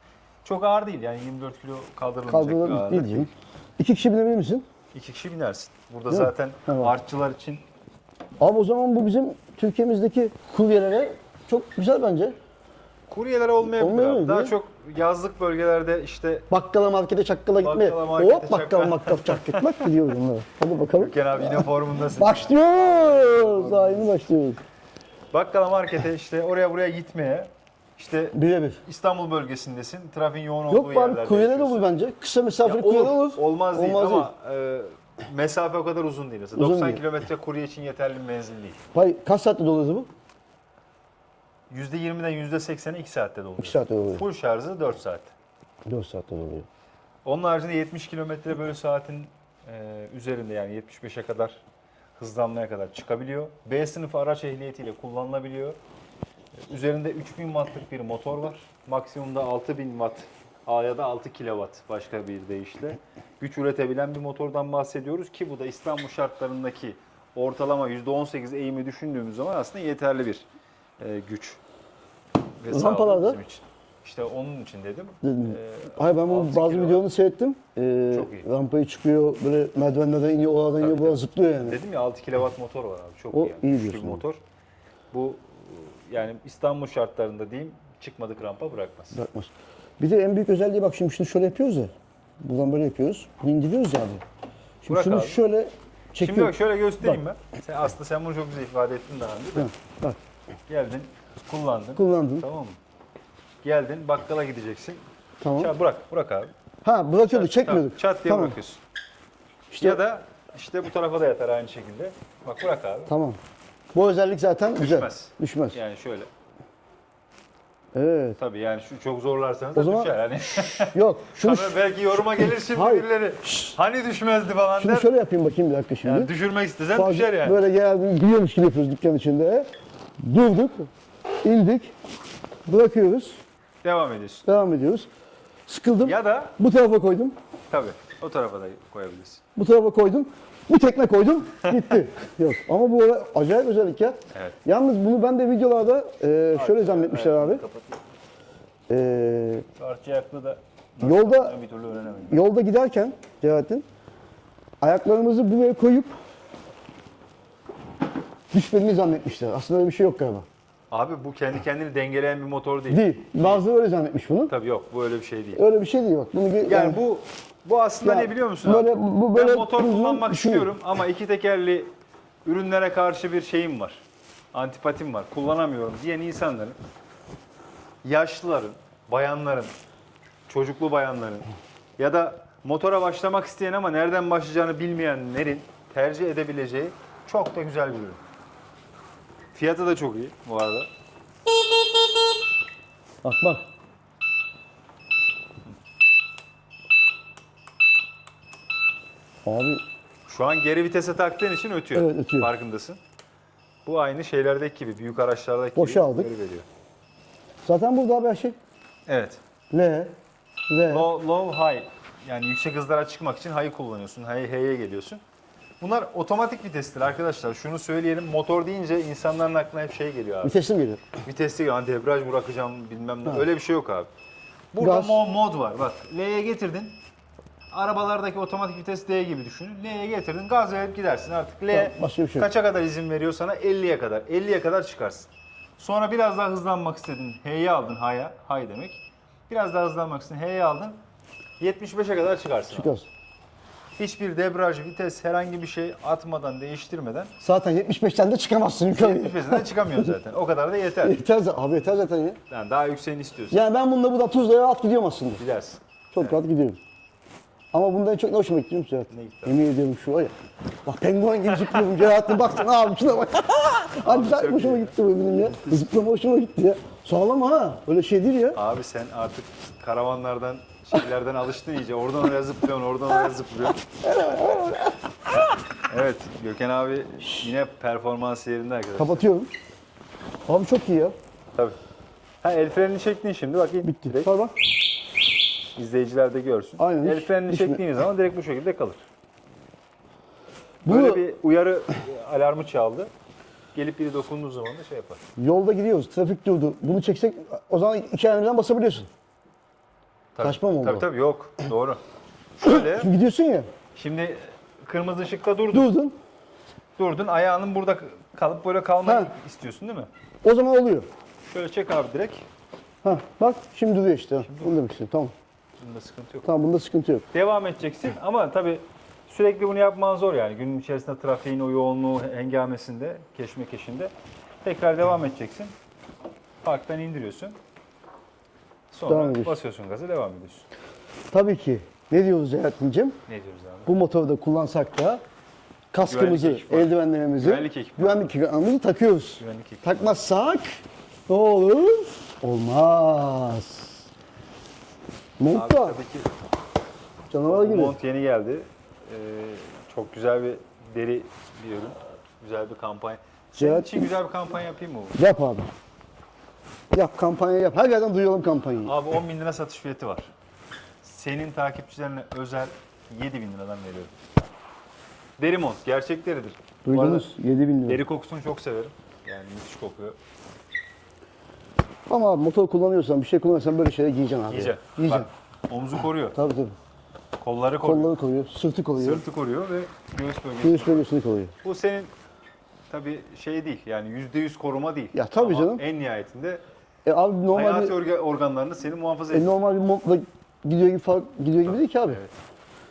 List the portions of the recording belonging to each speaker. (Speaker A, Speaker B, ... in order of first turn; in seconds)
Speaker A: 0.4-3.3, 4.9-7.6, 13.1-16.5, 17.6-19.6, 21.0-24.3, 25.3-31.9, 32.6-38.8, 41.7-45.3, 47.2-51.6, 52.2-55.8, 56.6-70.5, 71.0-71.6, 72.6-77.0, 78.1-78.5, 80.8-84.4, 85.1-89.2, 94.9-95.4, 96.2-99.7, 100.7-102.8, 103.6-105.0, 105.6-106.5, 107.2-108.8, 109.8-113.1, 114.8-116.3, 118.4-125.1, 126.0-127.6, 133.8-134.4, 136.0-136.6, 137.7-139.4, 146.5-148.0, 149.8-152.4, 160.9-163.6, 164.5-165.6, 166.7-171.9, 172.4-176.8, 178.0-179.8, 180.5-181.5, 182.0-188.2, 189.5-190.9, 200.3-203.0, 203.8-206.7, 209.1-209.4, 210.9-215.2, 215.8-220.6, 221.2-224.1, 224.7-227.0, 227.7-241.0, 241.6-242.9, 244.0-247.3, 248.9-251.2, 252.5-253.6, 255.4-256.4, 259.1-259.6, 261.5-262.0, 264.0-264.9, 268.5-273.8, 275.9-279.3, 282.4-284.3, 285.8-289.0, 290.9-293.1, 293.8-295.2, 300.4-302.0, 302.6-303.1, 303.9-305.9, 307.0-310.1, 311.4-312.5, 314.4-314.8, 315.8-316.5, 317.3-324.1, 324.6-325.7, 326.6-327.6, 328.9-330.7, 333.3-333.9, 336.1-338.4, 339.4-340.2, 345.5-346.3, 347.5-355.2, 358.8-360.3, 361.0-364.2, 365.4-367.3, 367.9-370.2, 374.5-376.4, 377.4-378.1, 379.0-381.1, 381.6-382.1, 382.9-386.6, 387.5-389.6, 391.6-392.3
Speaker B: 2.3-4.7, 6.1-6.9, 8.4-12.4, 13.6-14.6, 16.5-24.6, 28.3-28.8, 30.7-34.3, 36.6-37.0, 38.9-40.1, 43.6-44.2, 45.9-46.7, 72.7-73.4, 75.2-81.8, 83.3-84.2, 89.1-94.2, 94.8-97.2, 99.5-100.2, 102.0-102.5, 105.4-105.7, 106.8-108.6, 109.7-110.0, 113.1-113.4, 113.9-115.8, 117.9-118.4, 119.8-121.8, 122.3-123.8, 124.8-126.3, 126.9-129.7, 130.2-130.9, 131.4-131.9, 132.7-133.4, 134.4-135.1, 135.7-137.4, 139.6-147.6, 148.9-149.7, 151.0-151.6, 152.3-153.8, 154.8-156.1, 158.5-160.5, 162.9-164.5, 165.6-167.0, 168.0-170.7, 193.2-193.7, 199.4-199.8, 201.9-202.5, 205.8-206.3, 207.7-208.6, 209.7-210.1, 210.7-211.1, 220.4-221.0, 224.8-225.2, 231.7-232.5, 242.7-243.1, 247.4-250.1, 251.0-252.4, 253.5-255.4, 256.1-256.8, 257.7-260.3, 260.9-268.6, 274.1-274.9, 279.0-279.5, 280.5-281.1, 283.8-284.5, 286.8-287.8, 290.9-291.2, 295.4-299.1, 300.4-301.1, 302.6-303.7, 305.7-306.2, 309.1-309.3, 310.4-311.1, 313.0-315.3, 316.4-317.3, 329.1-329.6, 331.3-333.2, 333.9-335.2, 335.9-343.9, 345.4-346.0, 347.3-348.0, 353.6-354.1, 355.2-355.7, 356.9-358.9, 366.9-368.0, 372.1-375.3, 376.4-376.8, 377.8-379.3, 380.6-381.5, 385.1-385.8, 387.1-388.0, 389.3-392.2